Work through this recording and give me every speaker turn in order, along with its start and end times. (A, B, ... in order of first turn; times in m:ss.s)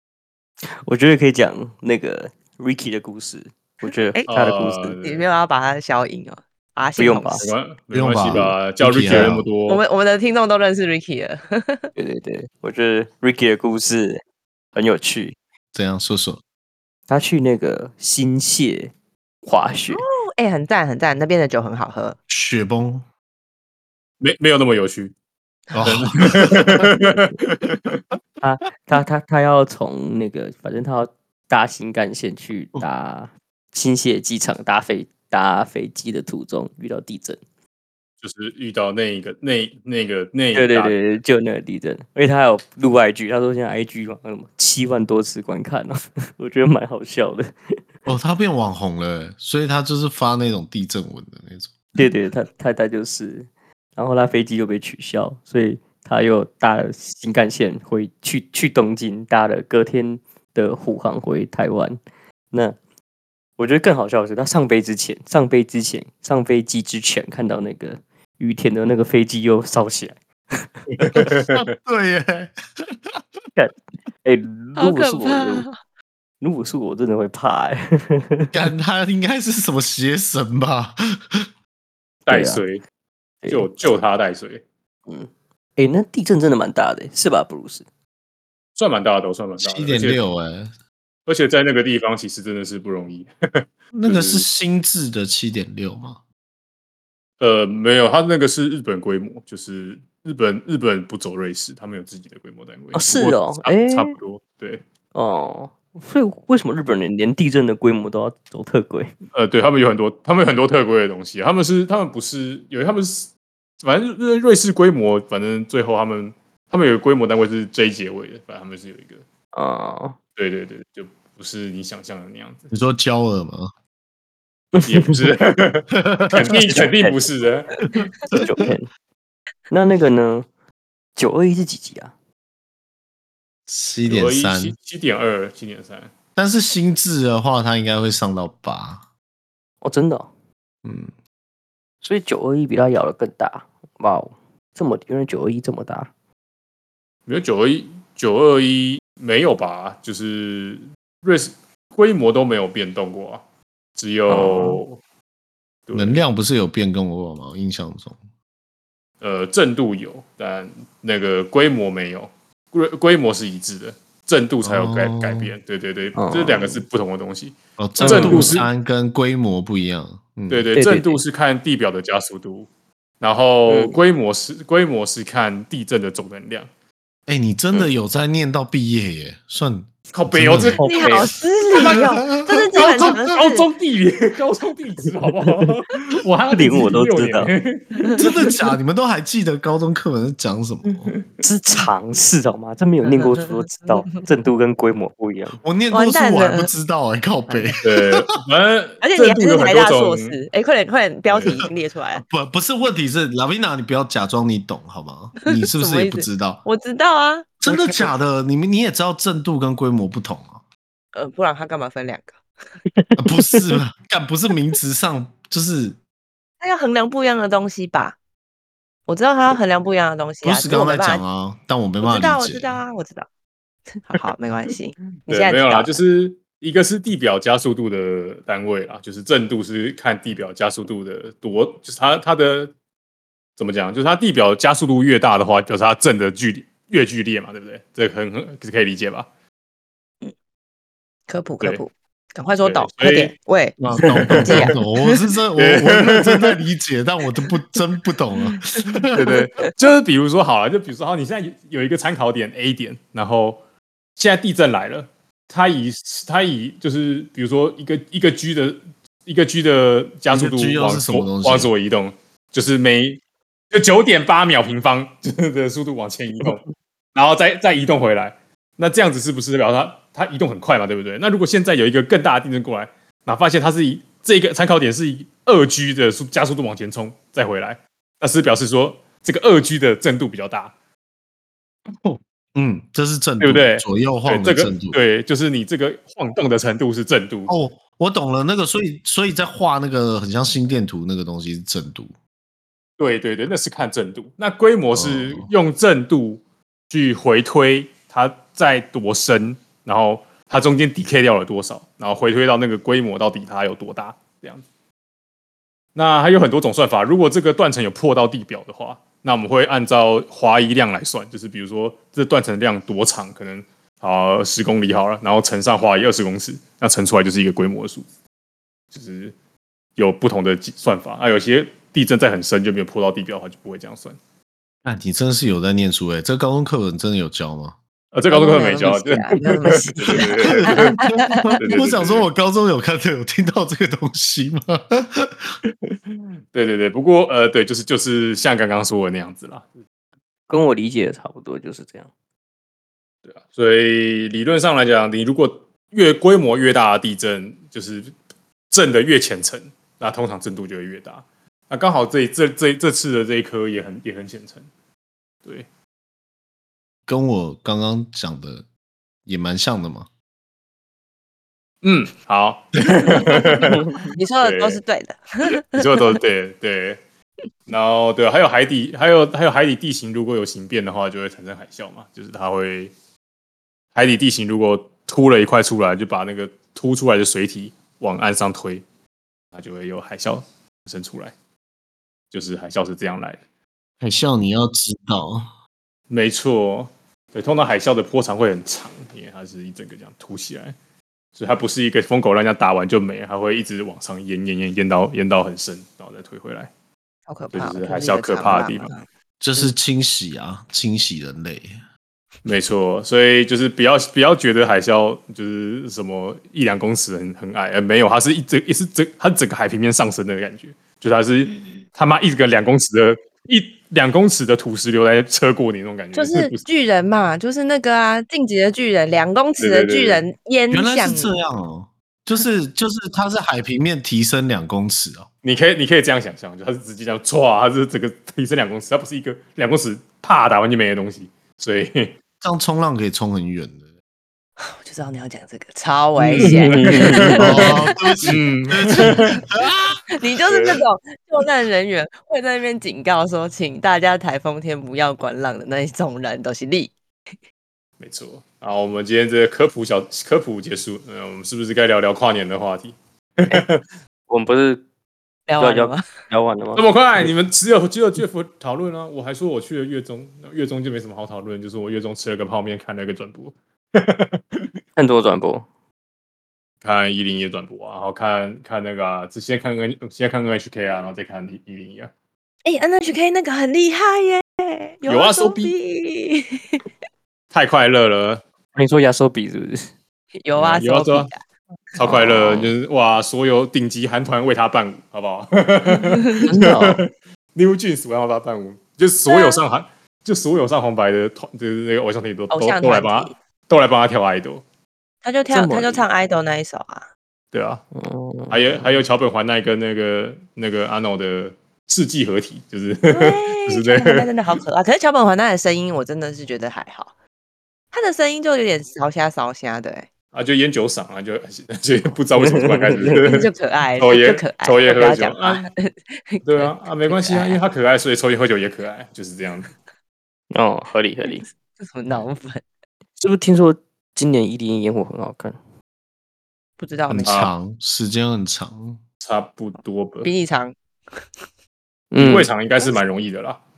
0:00.6-0:05.0 A
0:04.3-0:05.2 B
0:05.0-0:07.5 C
0:07.0-0:07.5 A
0:07.4-0:09.8 B
0:07.9-0:09.4 D
0:09.7-0:11.9 C
0:12.0-0:14.2 A
0:14.7-0:15.4 A
0:15.7-0:16.4 D
0:17.1-0:18.9 A
0:19.4-0:20.0 A
0:19.9-0:22.2 C
0:22.3-0:23.0 D
0:24.2-0:25.1 B
0:25.7-0:26.9 D
0:25.8-0:28.0 B
0:28.4-0:37.4 A
0:38.2-0:41.0 B
0:40.5-0:47.8 A
0:48.0-0:52.0 D
0:52.0-1:02.0 A
1:03.6-1:11.3 A
1:10.9-1:11.7 B
1:11.4-1:13.2 D
1:14.2-1:15.6 A
1:14.8-1:15.7 C
1:16.4-1:18.5 A
1:18.5-1:21.5 D
1:22.2-1:22.8 B
1:22.3-1:22.6 A
1:23.4-1:23.7 A
1:23.5-1:24.6 B
1:25.1-1:27.8 A
1:28.8-1:30.2 B
1:29.6-1:30.7 D
1:31.3-1:34.4 B
1:33.9-1:36.2 D
1:37.4-1:44.8 B
1:42.9-1:44.1 A
1:45.1-1:49.1 A
1:49.3-1:53.3 B
1:53.8-1:59.2 B
1:59.5-2:00.2 A
2:00.4-2:02.7 B
2:02.7-2:03.7 D
2:04.7-2:05.2 A
2:04.8-2:07.8 B
2:05.9-2:06.6 D
2:06.4-2:07.2 A
2:08.0-2:08.6 D
2:08.3-2:08.9 A
2:09.7-2:10.5 A
2:11.2-2:12.1 A
2:13.7-2:14.8 D
2:14.1-2:16.1 B
2:16.4-2:19.0 D
2:19.8-2:20.3 A
2:20.8-2:21.1 D
2:22.0-2:26.1 A
2:27.3-2:33.4 B
2:34.0-2:35.0 B
2:34.3-2:34.8 A
2:35.9-2:36.2 B
2:35.9-2:38.2 D
2:39.2-2:48.7 B
2:44.6-2:45.5 D
2:46.2-2:46.8 A
2:47.8-2:50.7 D
2:48.0-2:48.6 A
2:50.5-2:52.7 B
2:50.7-2:51.2 A
2:53.2-2:56.7 B
2:53.7-2:54.0 A
2:57.3-3:00.8 D
3:00.1-3:02.2 B
3:00.8-3:01.3 A
3:00.8-3:03.7 C
3:01.8-3:03.2 D
3:02.7-3:08.2 B
3:05.4-3:05.7 A
3:06.5-3:07.5 A
3:08.2-3:11.1 D
3:11.4-3:15.6 A
3:15.6-3:18.2 D
3:15.9-3:16.7 C
3:17.5-3:17.7 C
3:17.8-3:20.4 B
3:19.0-3:22.2 C
3:22.2-3:26.6 D
3:25.6-3:28.1 C
3:27.6-3:30.6 D
3:31.1-3:32.3 C
3:33.0-3:33.8 A
3:33.2-3:36.0 D
3:36.6-3:38.2 C
3:39.1-3:41.2 C
3:40.4-3:42.8 D
3:42.0-3:43.3 C
3:43.9-3:46.0 C
3:45.3-3:52.7 B
3:53.6-3:59.3 B
4:01.3-4:05.2 C
4:02.6-4:03.3 B
4:03.8-4:09.4 D
4:04.2-4:04.6 B
4:05.6-4:06.6 B
4:09.1-4:13.6 B
4:14.2-4:23.2 B
4:20.3-4:21.7 D
4:23.7-4:40.7 B
4:42.0-4:45.0 D
4:43.4-4:47.5 B
4:47.5-4:52.1 D
4:53.0-5:04.6 B
4:54.9-4:55.5 D
5:05.9-5:18.0 B
5:18.9-5:19.3 B
5:20.0-5:24.2 B
5:24.8-5:27.8 D
5:28.1-5:32.3 B
5:28.3-5:31.5 C
5:30.6-5:35.6 D
5:35.8-5:39.7 B
5:40.5-5:42.1 A
5:43.3-5:48.1 B
5:48.7-5:54.7 B
5:57.1-5:58.6 D
5:59.2-6:00.1 D
6:01.8-6:04.8 B
6:03.1-6:03.5 C
6:03.7-6:04.0 A
6:04.1-6:06.0 C
6:05.7-6:07.0 B
6:07.7-6:12.9 B
6:13.9-6:18.8 B
6:19.5-6:21.3 B
6:22.3-6:23.4 B
6:24.0-6:25.5 D
6:26.1-6:30.7 B
6:31.4-6:36.7 B
6:37.3-6:39.0 C
6:37.5-6:38.9 B
6:39.4-6:41.8 D
6:42.4-6:56.6 B
6:56.1-7:01.3 C
6:59.6-7:00.2 B
7:00.7-7:05.3 D
7:05.4-7:12.1 B
7:12.4-7:13.8 D
7:14.6-7:18.3 C
7:16.3-7:19.4 B
7:16.4-7:17.4 A
7:17.3-7:20.0 D
7:18.9-7:19.4 C
7:20.1-7:26.9 C
7:20.5-7:20.8 B
7:28.0-7:33.8 B
7:34.3-7:34.8 A
7:35.5-7:36.0 C
7:35.6-7:37.3 A
7:36.7-7:44.7 B
7:45.0-7:45.6 A
7:46.8-7:52.1 B
7:52.6-7:56.8 C
7:55.0-7:55.7 B
7:57.5-7:58.4 B
7:58.7-7:59.9 A
8:00.4-8:01.4 C
8:00.6-8:01.3 B
8:02.0-8:02.7 C
8:02.0-8:14.6 B
8:05.9-8:06.4 C
8:06.4-8:07.0 A
8:09.3-8:09.6 C
8:12.5-8:13.3 C
8:15.2-8:17.1 C
8:15.5-8:16.0 A
8:17.5-8:17.8 B
8:17.9-8:18.9 A
8:18.5-8:24.3 B
8:23.1-8:27.1 C
8:27.9-8:30.1 C
8:30.3-8:35.6 B
8:32.4-8:33.2 A
8:33.1-8:37.6 C
8:36.4-8:39.7 B
8:40.5-8:41.4 A
8:41.3-8:42.6 C
8:43.2-8:45.6 A
8:46.8-8:47.4 C
8:47.1-8:49.0 D
8:47.2-8:47.5 B
8:49.2-8:50.3 B
8:50.2-8:50.8 C
8:52.1-8:52.5 A
8:52.2-8:53.6 B